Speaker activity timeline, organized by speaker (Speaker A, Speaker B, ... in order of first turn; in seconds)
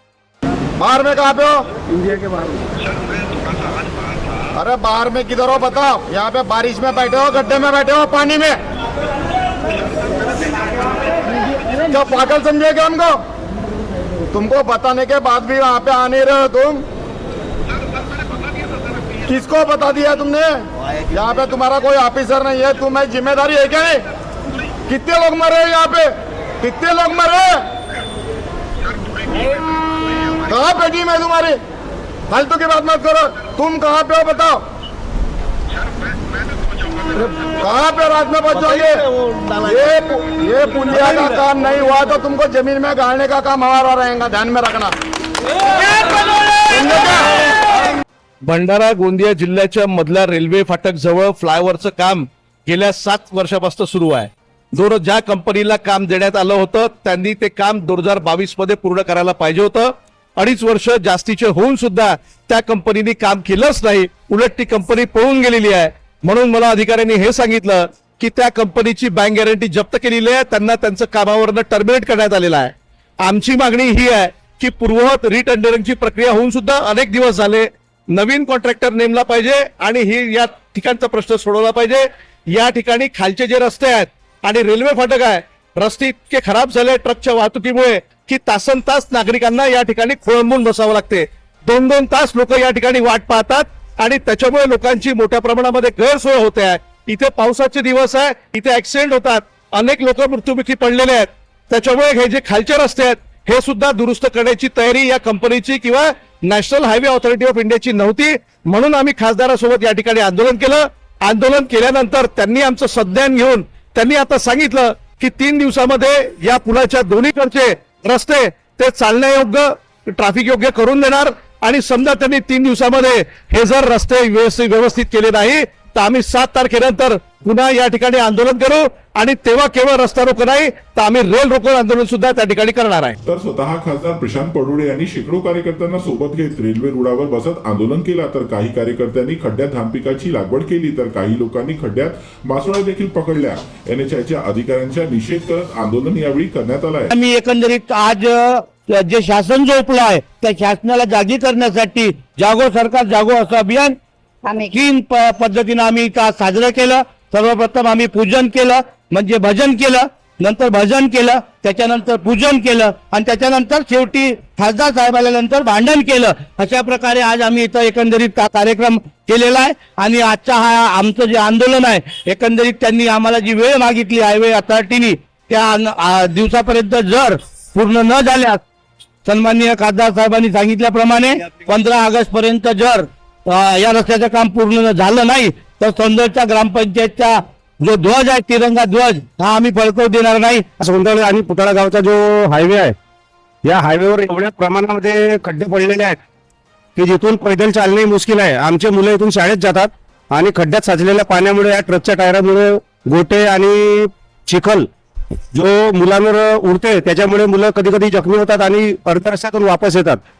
Speaker A: 0.8-2.4, 4.5-8.6, 11.9-13.2, 14.3-16.8, 19.3-24.0, 24.9-27.7, 30.5-31.6, 32.3-34.6, 37.1-39.0, 39.6-45.0, 46.7-47.3
Speaker B: 38.5-39.9, 40.9-41.4, 48.4-133.2
Speaker C: 133.2-147.1
Speaker D: 147.1-154.0, 154.7-178.6, 179.2-190.7
Speaker E: 190.8-192.9, 193.7-196.2, 197.0-204.9, 205.5-210.2